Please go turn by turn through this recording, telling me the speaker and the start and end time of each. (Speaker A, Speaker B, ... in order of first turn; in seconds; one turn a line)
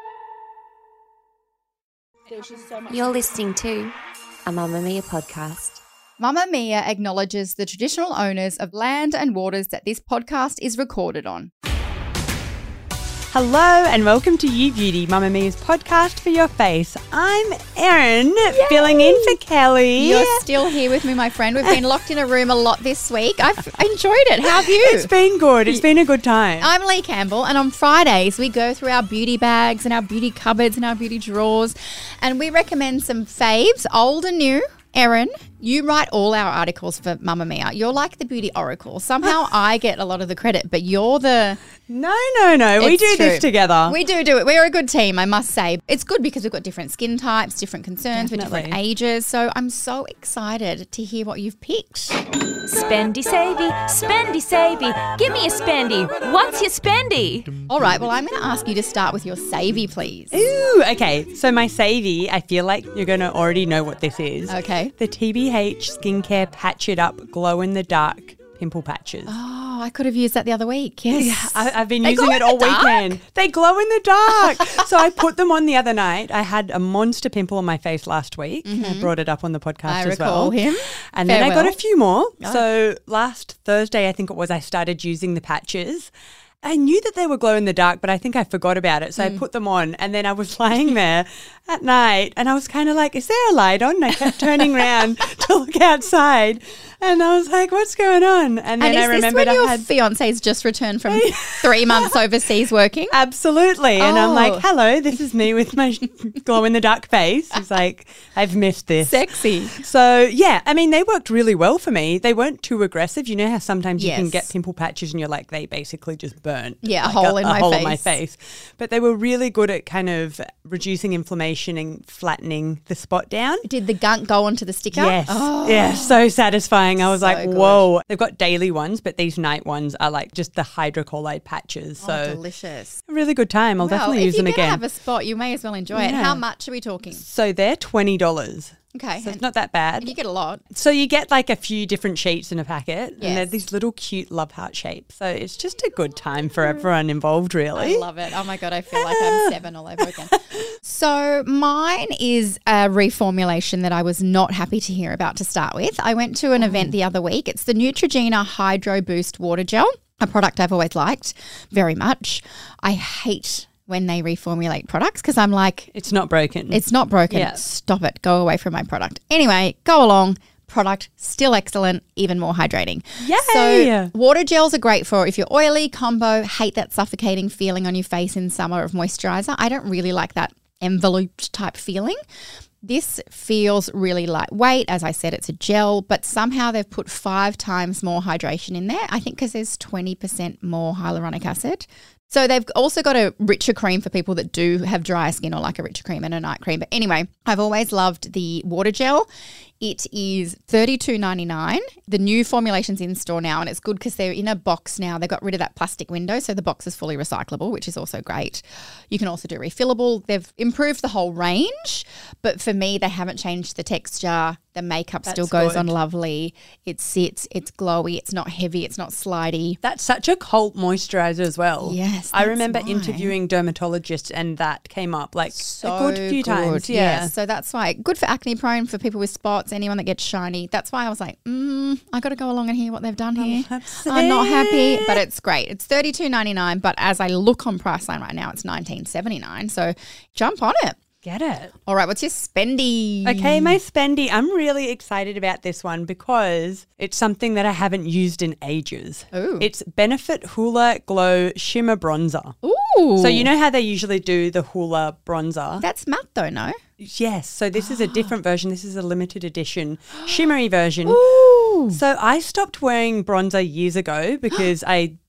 Speaker A: 2.9-5.8
Speaker B: 6.2-11.5
Speaker C: 13.3-20.4
Speaker B: 18.5-19.4
Speaker B: 20.0-25.1
Speaker C: 24.4-26.7
Speaker B: 26.6-41.6
Speaker C: 41.9-44.0
Speaker B: 42.8-52.2
Speaker C: 48.1-48.8
Speaker D: 52.6-57.5
Speaker B: 57.7-60.4
Speaker C: 60.3-69.3
Speaker B: 64.5-64.9
Speaker B: 69.3-73.2
Speaker C: 71.1-80.6
Speaker B: 78.6-79.1
Speaker B: 79.8-81.8
Speaker C: 81.1-86.1
Speaker C: 86.6-99.9
Speaker B: 98.8-103.2
Speaker C: 101.1-102.2
Speaker C: 103.1-123.7
Speaker B: 104.0-104.7
Speaker B: 109.0-109.8
Speaker B: 114.0-114.5
Speaker B: 116.8-118.2
Speaker B: 123.6-126.2
Speaker C: 124.9-132.4
Speaker B: 127.0-127.9
Speaker B: 132.0-133.0
Speaker C: 133.1-134.8
Speaker B: 133.8-137.2
Speaker C: 135.9-136.4
Speaker C: 137.1-140.1
Speaker B: 138.9-139.4
Speaker B: 140.0-140.6
Speaker C: 140.7-148.1
Speaker B: 143.2-143.5
Speaker B: 147.8-165.9
Speaker C: 148.9-149.5
Speaker C: 156.6-156.9
Speaker C: 165.9-167.6
Speaker B: 166.7-182.2
Speaker C: 173.2-174.1
Speaker B: 182.8-199.3
Speaker B: 199.8-219.8
Speaker C: 215.2-215.9
Speaker C: 219.8-227.3
Speaker B: 221.8-223.3
Speaker B: 225.5-241.0
Speaker C: 233.4-235.2
Speaker C: 241.2-241.7
Speaker B: 241.8-243.8
Speaker C: 243.2-252.5
Speaker B: 249.3-249.7
Speaker B: 252.6-253.5
Speaker C: 253.2-255.8
Speaker B: 255.8-256.8
Speaker C: 257.0-261.2
Speaker B: 257.8-258.3
Speaker B: 261.0-262.0
Speaker C: 261.9-265.1